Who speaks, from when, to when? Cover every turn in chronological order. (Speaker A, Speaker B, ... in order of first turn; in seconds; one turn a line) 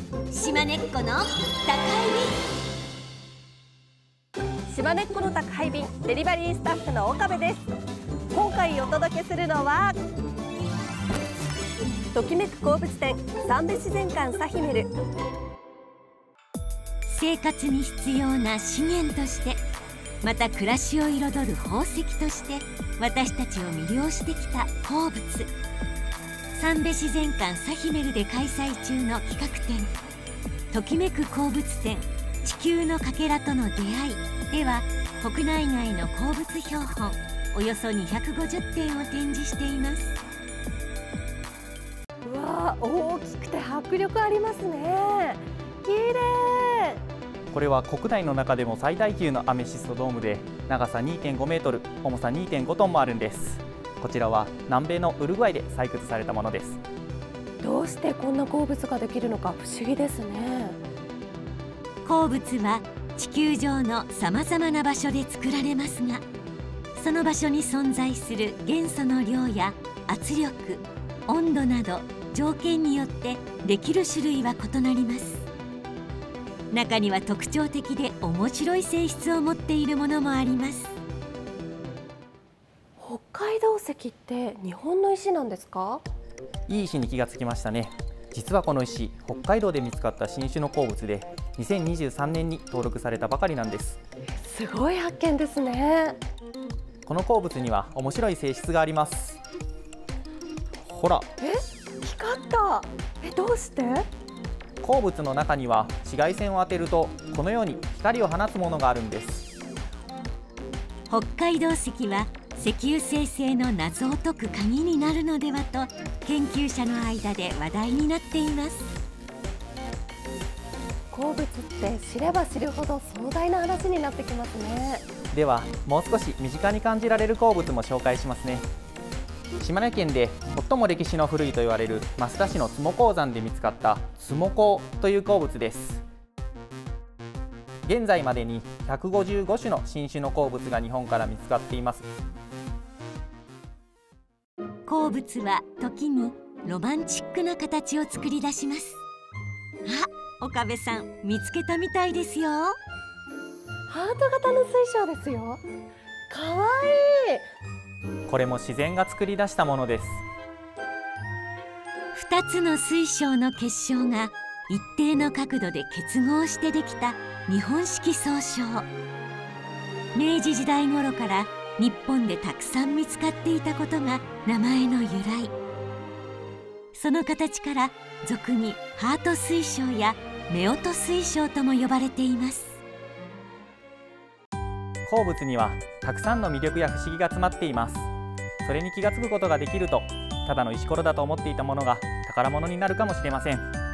Speaker A: 0.3-2.4
Speaker B: 4.7-7.7
Speaker B: 8.3-9.9
Speaker B: 12.1-14.9
Speaker A: 17.1-19.6
Speaker A: 20.2-25.5
Speaker A: 26.5-29.9
Speaker A: 30.7-40.1
Speaker B: 42.2-47.0
Speaker C: 47.5-56.8
Speaker B: 57.6-60.8
Speaker A: 62.0-66.2
Speaker A: 66.9-75.4
Speaker A: 76.7-80.9
Speaker B: 83.0-86.0
Speaker C: 86.7-94.0
Speaker B: 94.4-96.2
Speaker C: 97.0-99.4
Speaker C: 100.8-101.3
Speaker B: 101.4-104.0
Speaker C: 104.8-109.5
Speaker A: 111.1-119.0
Speaker B: 121.1-125.0
Speaker C: 125.3-128.6
Speaker C: 129.6-136.0
Speaker C: 137.8-142.1
Speaker A: 144.8-149.0
Speaker A: 149.8-152.8
Speaker B: 153.9-155.6
Speaker B: 156.3-157.4
Speaker C: 158.3-160.2
Speaker A: 162.1-168.9
Speaker A: 170.1-175.5
Speaker A: 176.9-182.8
Speaker C: 185.1-188.1
Speaker C: 188.6-193.7